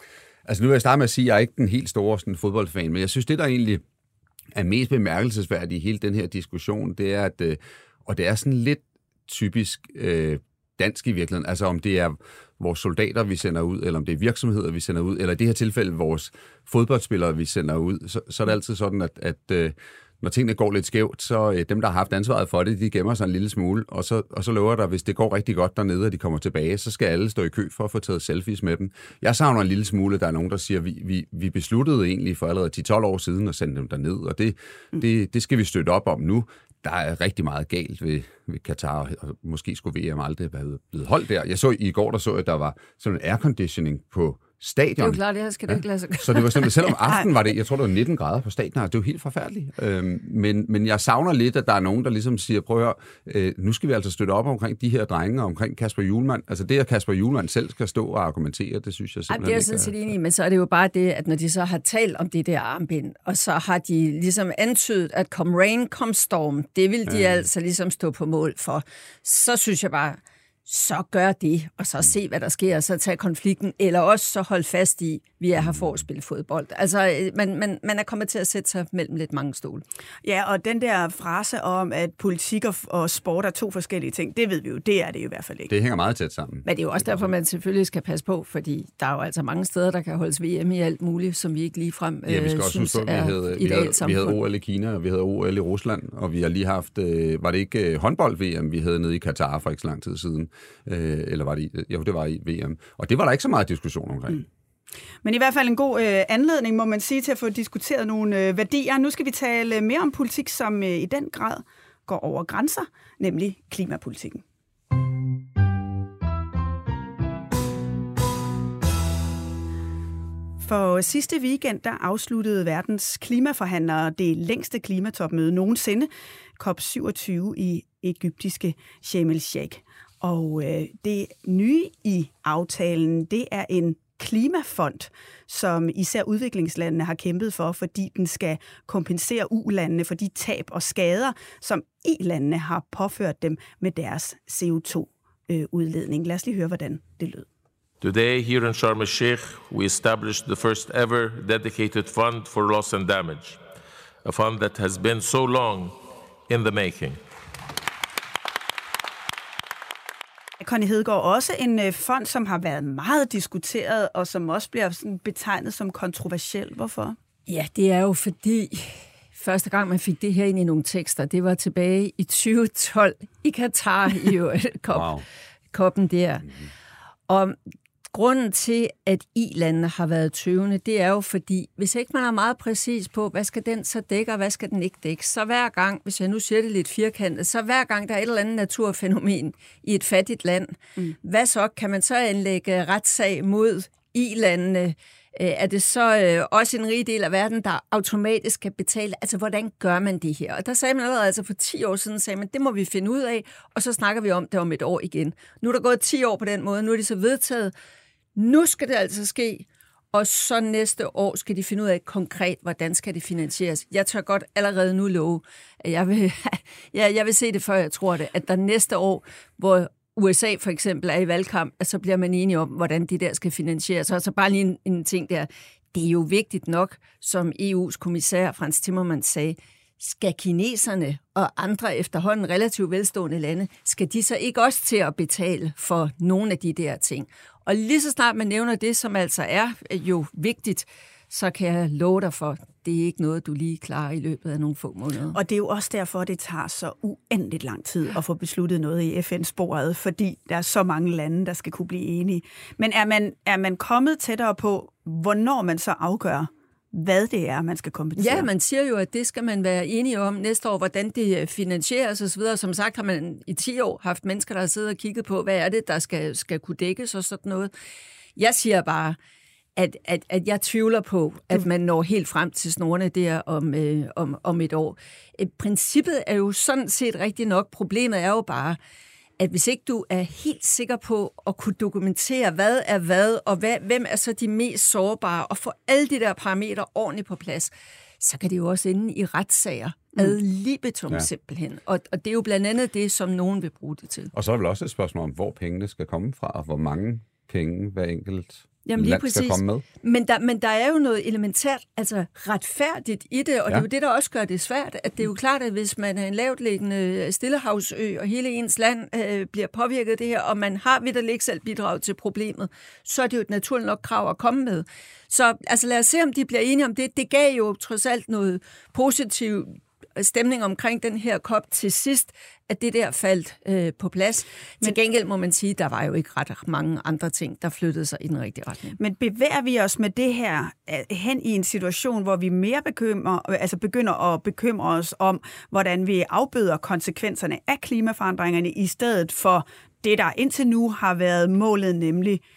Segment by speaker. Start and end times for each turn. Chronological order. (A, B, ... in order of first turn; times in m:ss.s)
0:00.5-0:03.8 A
0:04.5-1:00.0 A
0:45.0-0:47.0 B
0:59.3-1:19.8 B
1:07.1-1:07.4 A
1:15.6-1:16.0 A
1:20.2-1:25.7 C
1:25.7-1:27.3 A
1:26.6-1:34.4 B
1:32.3-1:44.4 A
1:45.2-1:54.4 C
2:00.6-2:27.5 C
2:28.0-2:33.6 D
2:34.2-2:37.2 D
2:40.6-2:47.2 C
2:47.5-2:55.1 B
2:54.9-2:55.2 A
2:55.7-2:56.5 B
2:57.3-2:57.6 B
2:58.1-3:27.7 B
3:28.4-4:05.4 B
4:05.3-4:18.5 C
4:18.2-4:27.7 B
4:28.4-4:29.2 B
4:29.8-4:38.8 B
4:39.4-4:54.3 B
4:54.3-4:59.8 A
4:58.8-5:29.0 B
5:29.0-5:42.4 C